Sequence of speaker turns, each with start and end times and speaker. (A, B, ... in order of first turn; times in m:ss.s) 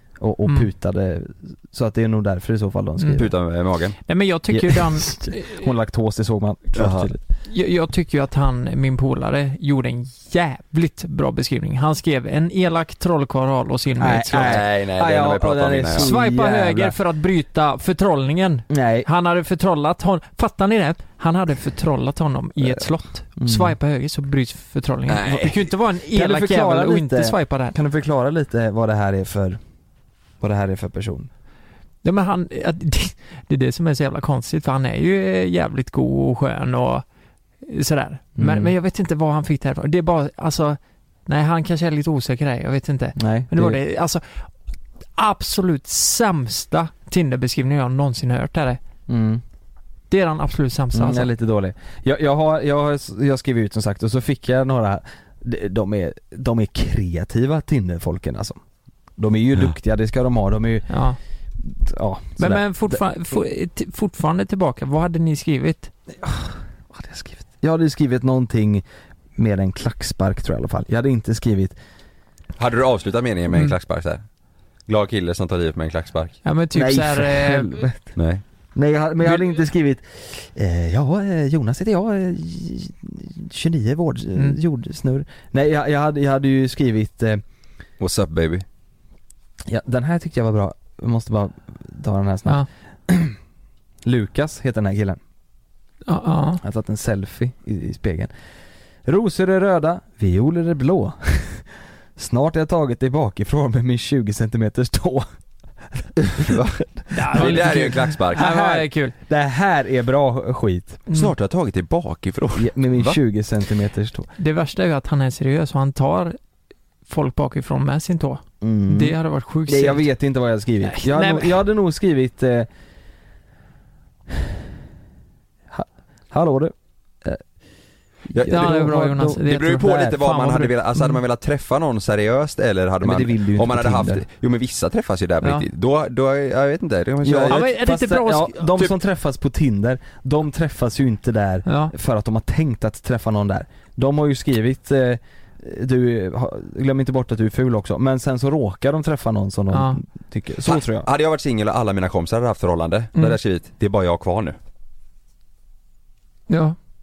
0:00.2-0:03.3 A
0:03.0-0:03.2 B
0:03.2-0:04.0 C
0:04.0-0:05.7 B
0:04.5-0:07.2 A
0:06.8-0:07.1 C
0:07.5-0:14.6 B
0:14.0-0:17.0 A
0:14.4-0:16.1 C
0:16.0-0:27.8 B
0:18.7-0:19.1 A
0:23.4-0:23.8 A
0:25.1-0:25.7 C
0:26.1-0:29.6 A
0:30.4-0:31.3 A
0:32.0-0:37.0 B
0:37.6-0:44.4 B
0:38.4-0:38.7 A
0:43.2-0:43.8 A
0:45.2-0:48.8 B
0:49.1-0:49.4 A
0:50.1-0:51.3 B
0:50.9-0:58.6 A
0:59.2-1:00.9 A
1:00.9-1:01.2 B
1:01.6-1:03.0 A
1:02.4-1:05.9 B
1:06.2-1:08.8 A
1:09.4-1:11.8 A
1:12.6-1:14.2 C
1:14.9-1:16.4 C
1:16.4-1:17.9 B
1:16.7-1:18.2 A
1:18.2-1:18.4 C
1:18.8-1:27.4 A
1:28.0-1:28.6 C
1:29.7-1:33.4 A
1:34.0-1:35.2 A
1:36.1-1:36.6 B
1:36.6-1:38.3 A
1:39.1-1:45.3 A
1:46.0-1:46.6 A
1:46.2-1:48.5 C
1:47.1-1:49.1 B
1:47.2-1:51.0 A
1:51.1-1:53.2 C
1:52.6-1:54.3 A
1:54.4-1:56.4 B
1:57.1-2:00.1 B
1:58.6-2:02.7 A
2:00.8-2:01.6 B
2:05.7-2:07.4 A
2:08.3-2:09.4 A
2:08.3-2:08.9 C
2:08.5-2:11.2 B
2:09.4-2:17.6 C
2:13.0-2:14.2 A
2:17.2-2:31.1 A
2:17.5-2:18.7 B
2:21.7-2:21.9 B
2:29.7-2:30.0 B
2:30.6-2:34.6 C
2:36.5-2:36.8 B